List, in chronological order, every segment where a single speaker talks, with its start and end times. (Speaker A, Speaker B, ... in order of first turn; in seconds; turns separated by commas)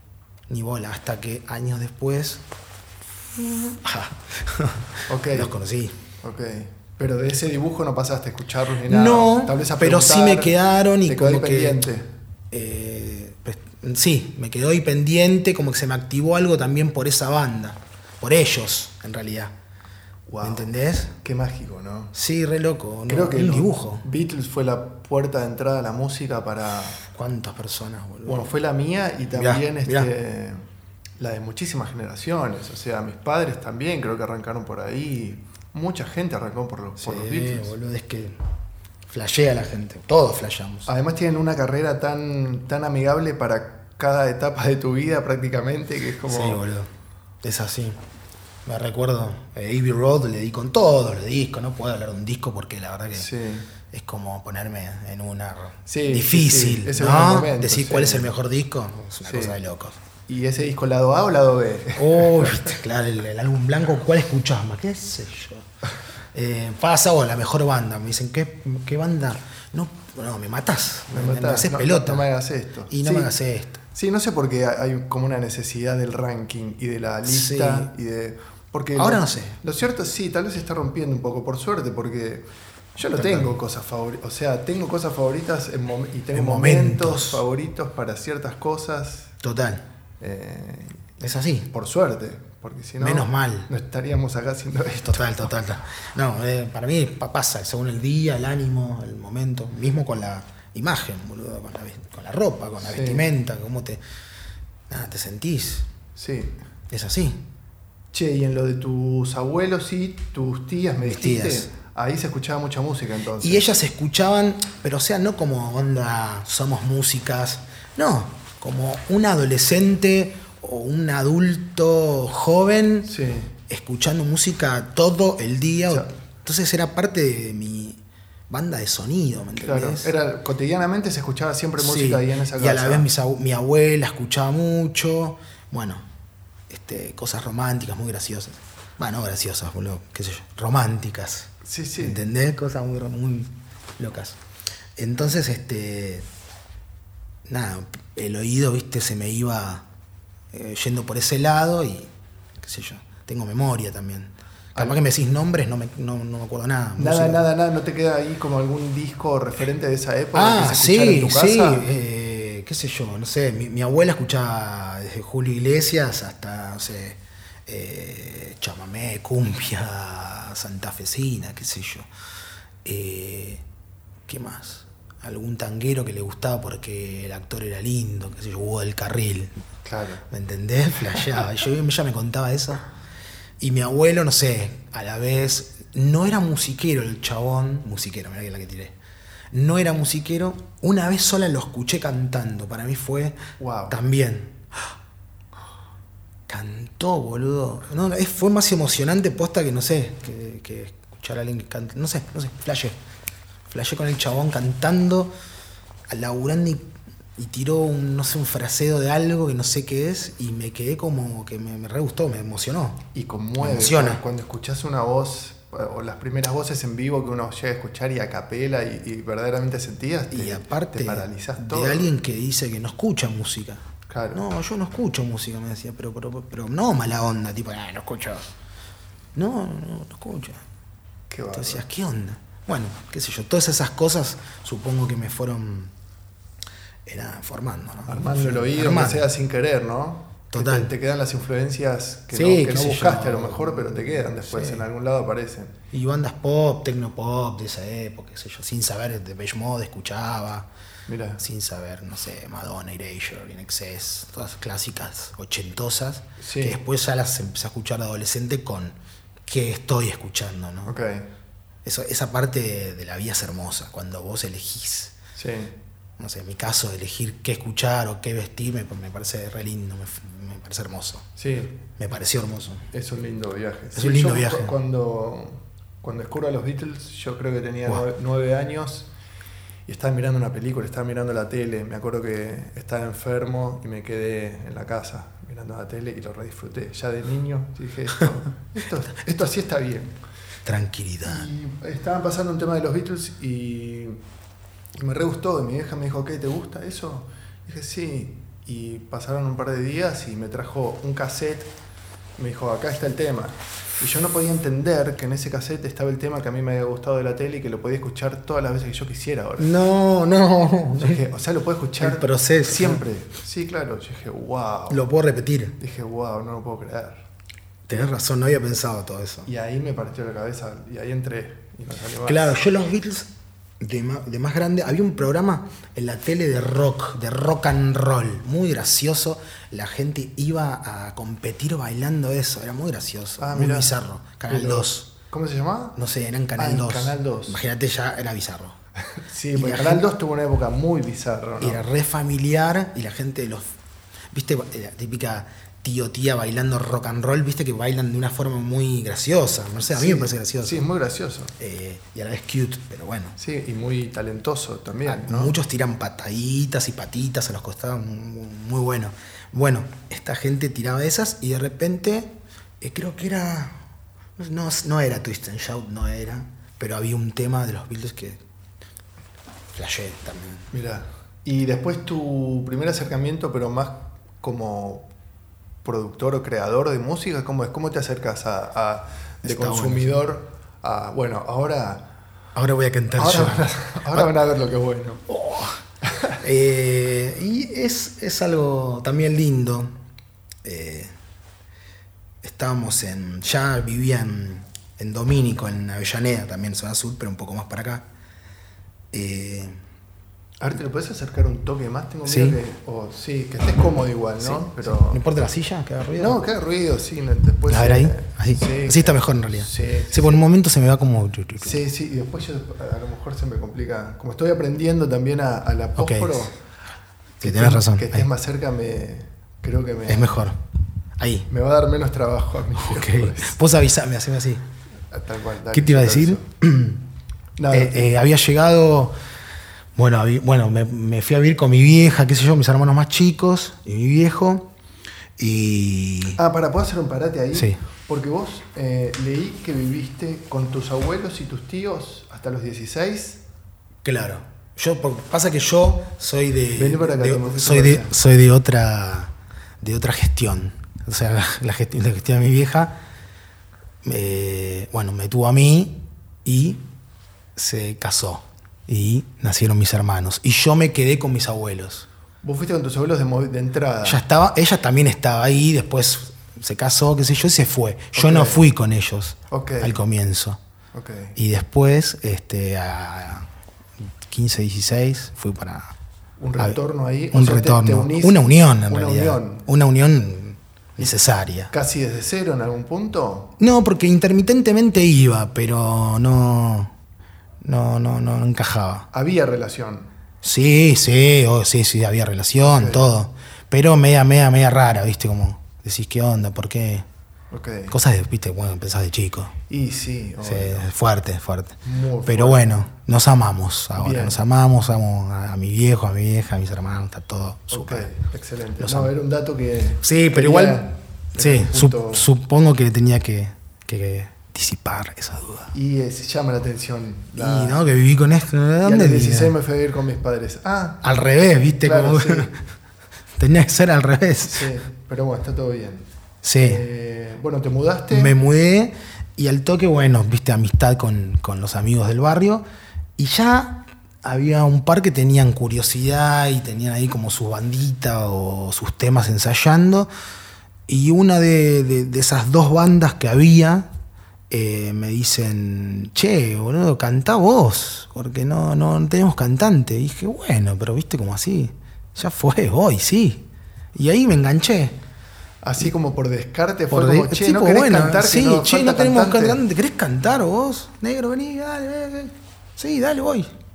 Speaker A: 0.5-2.4, Speaker A: 3.3-6.0, Speaker B: 5.1-5.5, Speaker B: 6.2-12.1, Speaker A: 8.9-11.8, Speaker A: 12.5-19.5, Speaker B: 20.3-22.1, Speaker A: 20.4-21.1, Speaker A: 22.1-24.1, Speaker B: 23.1-27.0, Speaker A: 27.1-28.5, Speaker B: 28.2-30.6, Speaker A: 29.3-30.1, Speaker B: 31.2-37.7, Speaker A: 37.0-38.4, Speaker A: 39.1-40.9, Speaker B: 40.9-46.6, Speaker A: 46.3-46.9, Speaker A: 47.4-48.0, Speaker A: 48.7-53.3, Speaker B: 53.1-53.7, Speaker A: 53.9-60.0, Speaker B: 55.9-58.3, Speaker B: 59.2-59.6, Speaker B: 60.3-62.8, Speaker A: 62.0-65.7, Speaker A: 66.3-72.3, Speaker B: 71.1-73.3, Speaker A: 72.9-73.8, Speaker B: 73.9-89.3, Speaker A: 77.3-77.9, Speaker A: 79.0-79.6, Speaker A: 83.1-83.6, Speaker A: 86.3-87.4, Speaker A: 89.4-89.8, Speaker B: 90.2-95.5, Speaker A: 91.2-91.7, Speaker A: 93.0-93.7, Speaker A: 95.0-104.0, Speaker B: 102.8-103.3, Speaker A: 104.9-105.9, Speaker B: 106.2-106.6, Speaker A: 106.9-107.4, Speaker B: 108.1-113.7, Speaker A: 111.0-111.7, Speaker A: 113.4-123.1, Speaker B: 123.1-123.5, Speaker A: 123.7-130.1, Speaker B: 129.6-133.1, Speaker A: 131.8-136.1, Speaker A: 136.7-144.4, Speaker B: 141.6-142.2, Speaker A: 145.0-146.2, Speaker A: 147.5-149.9, Speaker A: 150.5-157.4, Speaker B: 157.0-161.9, Speaker A: 160.3-172.1, Speaker A: 172.8-173.6, Speaker A: 174.3-179.5, Speaker B: 179.8-180.2, Speaker A: 180.3-182.9, Speaker A: 183.6-188.9, Speaker A: 189.5-193.4, Speaker B: 193.6-194.0, Speaker A: 193.9-194.6, Speaker A: 196.5-203.0, Speaker A: 203.7-205.3, Speaker A: 206.1-206.8, Speaker A: 207.4-213.1, Speaker B: 213.2-222.1, Speaker A: 213.6-214.2, Speaker A: 220.3-223.8, Speaker B: 224.1-224.4, Speaker A: 224.3-228.5, Speaker A: 229.3-230.6, Speaker B: 231.3-231.8, Speaker A: 231.5-235.9, Speaker A: 237.1-239.3, Speaker B: 238.1-245.8, Speaker A: 240.5-240.9, Speaker A: 242.3-244.9, Speaker A: 245.9-250.7, Speaker B: 251.1-251.4, Speaker A: 251.4-260.9, Speaker B: 256.4-256.8, Speaker B: 260.9-261.3, Speaker A: 261.8-265.2, Speaker B: 265.4-265.8, Speaker A: 266.2-271.3, Speaker B: 271.4-271.8, Speaker A: 271.9-272.8, Speaker B: 272.9-279.1, Speaker A: 273.9-274.7, Speaker B: 279.9-290.2, Speaker A: 290.6-291.5, Speaker B: 291.2-294.2, Speaker B: 295.0-301.7, Speaker B: 302.4-309.7, Speaker A: 309.6-311.2, Speaker B: 310.9-315.0, Speaker A: 312.0-313.0, Speaker A: 314.9-315.8, Speaker B: 315.8-317.3, Speaker A: 317.9-319.5, Speaker B: 319.5-322.6, Speaker A: 322.2-335.1, Speaker B: 333.4-334.0, Speaker B: 334.5-336.0, Speaker A: 336.0-338.8, Speaker B: 336.6-337.6, Speaker B: 339.1-341.8, Speaker A: 339.5-340.0, Speaker A: 341.6-343.6, Speaker A: 344.3-350.9, Speaker B: 349.9-351.5, Speaker A: 351.6-353.4, Speaker B: 353.4-355.6, Speaker A: 355.1-363.8, Speaker A: 364.4-368.4, Speaker A: 369.8-370.7, Speaker B: 370.7-375.1, Speaker B: 375.8-382.1, Speaker A: 379.4-380.1, Speaker A: 382.6-384.3, Speaker B: 383.2-385.2, Speaker A: 385.3-385.8, Speaker A: 386.4-389.9, Speaker A: 390.6-391.1, Speaker A: 392.4-398.1, Speaker A: 399.1-399.8, Speaker B: 400.6-405.2, Speaker A: 402.3-402.6, Speaker A: 404.4-406.4, Speaker B: 406.2-410.4, Speaker A: 407.7-411.8, Speaker B: 411.6-416.6, Speaker A: 416.0-416.4, Speaker A: 417.4-418.3, Speaker B: 417.4-420.4, Speaker A: 420.1-420.6, Speaker A: 421.2-421.5, Speaker B: 421.5-423.6, Speaker A: 422.8-424.6, Speaker B: 425.1-426.4, Speaker A: 425.7-427.1, Speaker B: 427.6-428.1, Speaker A: 427.7-429.2, Speaker A: 429.9-434.7, Speaker A: 435.4-436.4, Speaker B: 436.4-443.4, Speaker A: 437.5-437.8, Speaker A: 444.0-453.0, Speaker B: 446.8-448.1, Speaker A: 454.0-456.8, Speaker A: 457.6-462.1, Speaker B: 462.4-464.2, Speaker A: 464.0-470.6, Speaker B: 468.1-468.7, Speaker B: 469.5-470.0, Speaker B: 470.9-471.4, Speaker A: 471.4-473.5, Speaker A: 474.2-475.9, Speaker B: 476.4-479.7, Speaker A: 477.3-481.7, Speaker B: 481.7-483.5, Speaker A: 483.6-486.9, Speaker A: 487.6-489.1, Speaker B: 489.1-490.1, Speaker A: 490.4-497.1, Speaker B: 492.6-493.1, Speaker B: 497.5-498.0, Speaker A: 497.9-499.6, Speaker B: 499.7-500.9, Speaker A: 500.4-508.1, Speaker B: 501.9-502.7, Speaker B: 504.0-504.4, Speaker B: 507.7-512.3, Speaker A: 508.8-509.1, Speaker A: 510.0-515.7, Speaker B: 515.7-517.8, Speaker A: 517.4-519.5, Speaker B: 518.8-521.0, Speaker A: 521.0-522.6, Speaker B: 521.8-522.5, Speaker A: 523.4-524.7, Speaker B: 524.4-526.1, Speaker A: 526.4-526.8, Speaker B: 526.6-528.4, Speaker A: 528.1-532.7, Speaker A: 533.2-540.1, Speaker A: 540.9-543.9, Speaker A: 544.5-555.0, Speaker B: 555.6-559.6, Speaker A: 556.9-563.5